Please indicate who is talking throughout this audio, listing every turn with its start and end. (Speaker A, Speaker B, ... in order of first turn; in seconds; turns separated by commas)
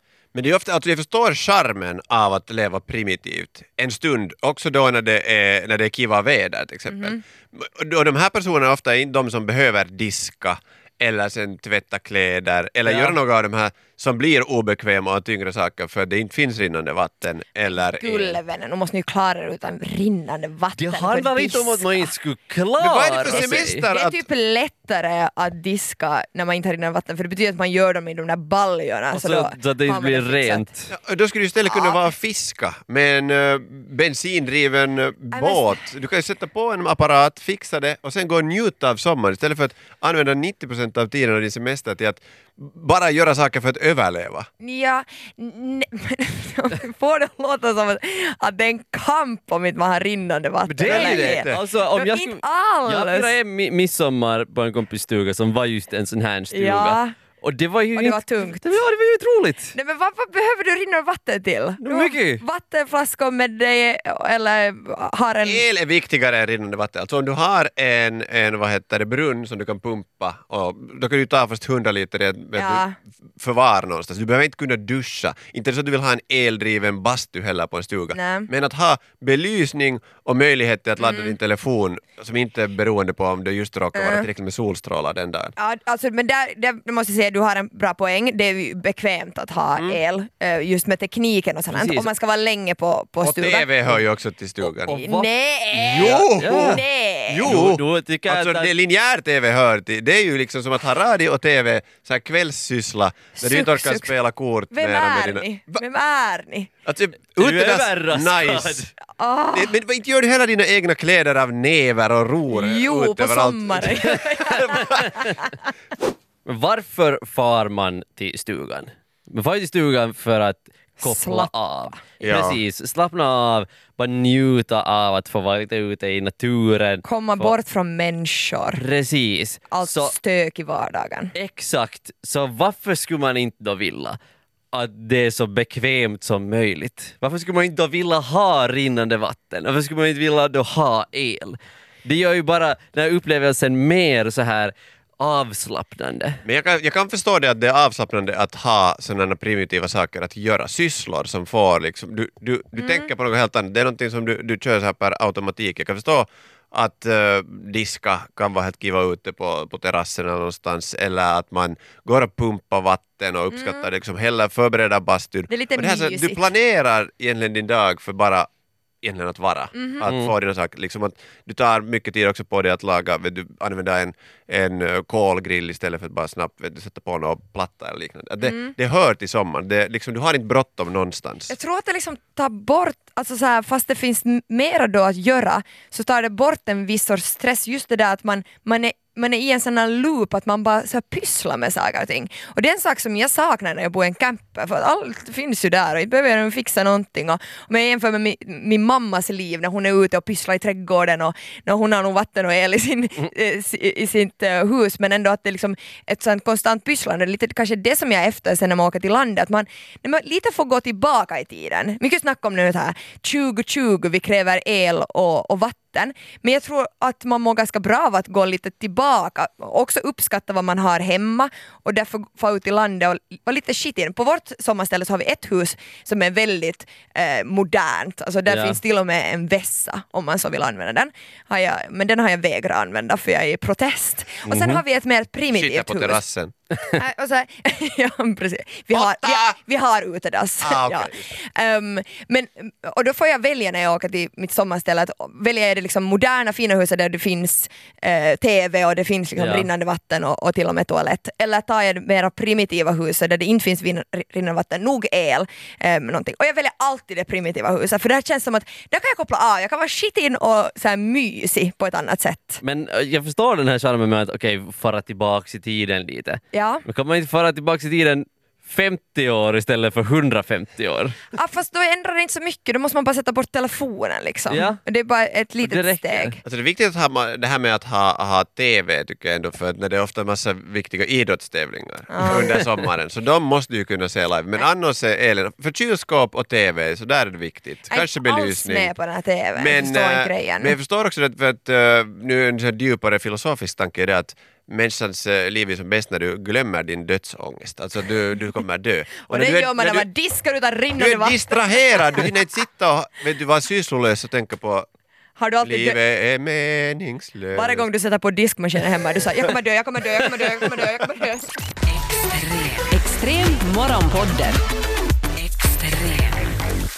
Speaker A: 0.3-18.4, Speaker B: 6.9-7.2, Speaker C: 12.8-13.2, Speaker B: 17.6-22.1, Speaker C: 20.8-23.8, Speaker A: 22.8-24.2, Speaker B: 23.3-30.7, Speaker C: 29.1-30.9, Speaker A: 30.9-44.5, Speaker B: 31.6-32.0, Speaker B: 35.3-35.8, Speaker B: 44.6-53.3, Speaker C: 50.7-59.7, Speaker A: 50.8-51.6, Speaker B: 56.5-57.1, Speaker B: 57.9-58.7, Speaker B: 59.7-65.7, Speaker C: 61.8-62.4, Speaker A: 65.4-85.5, Speaker B: 72.5-73.0, Speaker B: 78.1-78.5, Speaker B: 81.0-81.3, Speaker B: 83.9-84.3, Speaker B: 85.6-93.7, Speaker A: 89.7-90.0, Speaker C: 91.7-92.1, Speaker A: 93.2-95.0, Speaker C: 94.8-95.3, Speaker B: 94.9-97.5, Speaker A: 95.7-105.8, Speaker C: 95.9-96.8, Speaker C: 97.4-98.7, Speaker B: 103.4-104.1, Speaker B: 104.7-106.7, Speaker A: 106.8-108.9, Speaker C: 107.4-108.9, Speaker B: 109.1-109.8, Speaker A: 109.5-115.0, Speaker B: 112.5-115.5, Speaker C: 114.7-115.5, Speaker C: 116.5-127.5, Speaker B: 121.0-122.0, Speaker A: 122.2-122.6, Speaker B: 127.0-128.8, Speaker C: 128.7-130.1, Speaker B: 129.7-131.3, Speaker C: 131.3-134.2, Speaker C: 134.7-146.4, Speaker A: 146.4-168.5, Speaker B: 152.8-153.1, Speaker B: 163.5-163.9, Speaker B: 165.5-166.4, Speaker A: 169.0-181.5, Speaker B: 169.7-170.1, Speaker C: 170.1-170.3, Speaker B: 178.4-178.7, Speaker B: 181.5-236.2, Speaker C: 228.5-228.8, Speaker C: 234.4-234.8, Speaker A: 235.5-236.5, Speaker B: 236.7-262.6, Speaker A: 238.9-239.6, Speaker A: 240.6-241.3, Speaker C: 249.4-249.7, Speaker C: 262.6-271.2, Speaker B: 266.5-266.8, Speaker B: 271.3-276.4, Speaker C: 274.5-274.8, Speaker C: 275.6-276.4, Speaker A: 276.4-288.9, Speaker B: 282.1-282.6, Speaker B: 287.9-290.8, Speaker A: 289.6-300.1, Speaker B: 299.2-302.3, Speaker A: 300.9-304.9, Speaker B: 305.4-306.0, Speaker A: 305.6-307.9, Speaker B: 307.5-311.5, Speaker D: 312.0-314.6, Speaker D: 315.4-316.5